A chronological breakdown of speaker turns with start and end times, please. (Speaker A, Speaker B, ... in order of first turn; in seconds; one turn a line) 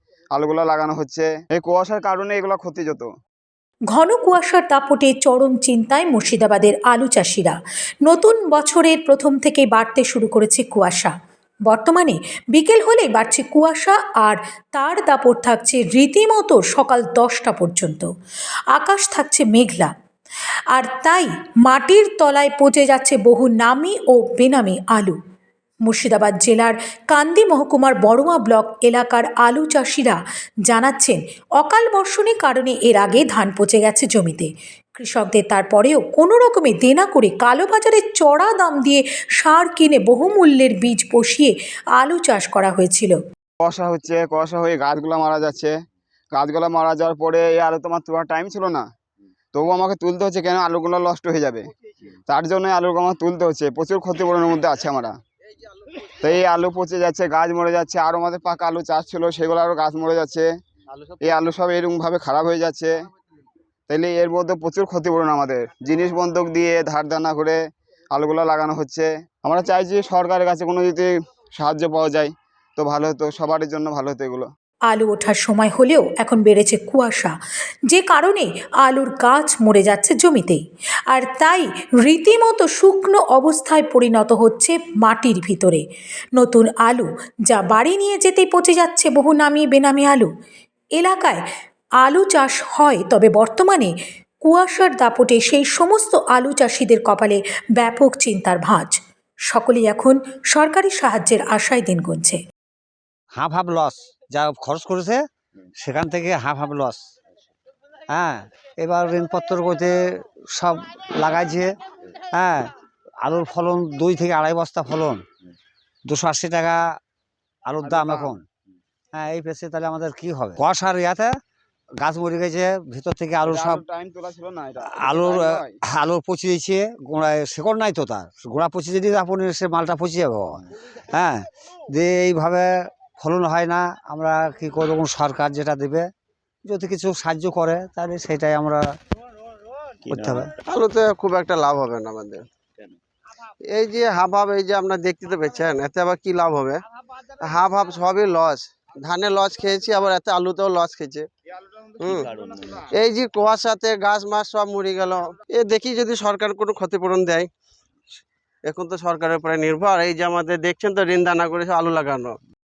Speaker A: 0.3-3.1
Speaker B: 3.9-11.1
Speaker B: 11.7-18.1
Speaker B: 18.7-19.9
Speaker B: 20.7-25.2
Speaker B: 25.8-43.2
Speaker A: 43.6-45.7
Speaker A: 46.3-48.9
Speaker A: 49.5-51.6
Speaker A: 52.3-55.1
Speaker A: 56.2-60.5
Speaker C: 60.9-61.3
Speaker A: 61.2-62.9
Speaker A: 63.9-67.6
Speaker A: 68.1-74.5
Speaker B: 74.9-77.3
Speaker B: 77.9-85.8
Speaker B: 86.4-90.3
Speaker B: 91.0-91.4
Speaker B: 92.0-93.9
Speaker B: 94.4-99.0
Speaker B: 99.5-102.4
Speaker D: 103.3-105.2
Speaker D: 105.8-107.0
Speaker D: 108.1-111.7
Speaker D: 112.3-115.2
Speaker D: 116.1-117.0
Speaker D: 117.7-118.4
Speaker A: 117.8-118.3
Speaker D: 119.1-121.3
Speaker D: 122.0-123.8
Speaker A: 123.4-125.8
Speaker D: 124.9-136.1
Speaker D: 136.7-138.9
Speaker D: 140.1-140.5
Speaker C: 140.6-142.4
Speaker C: 143.7-146.8
Speaker C: 147.3-151.3
Speaker C: 151.9-157.5
Speaker C: 158.7-162.4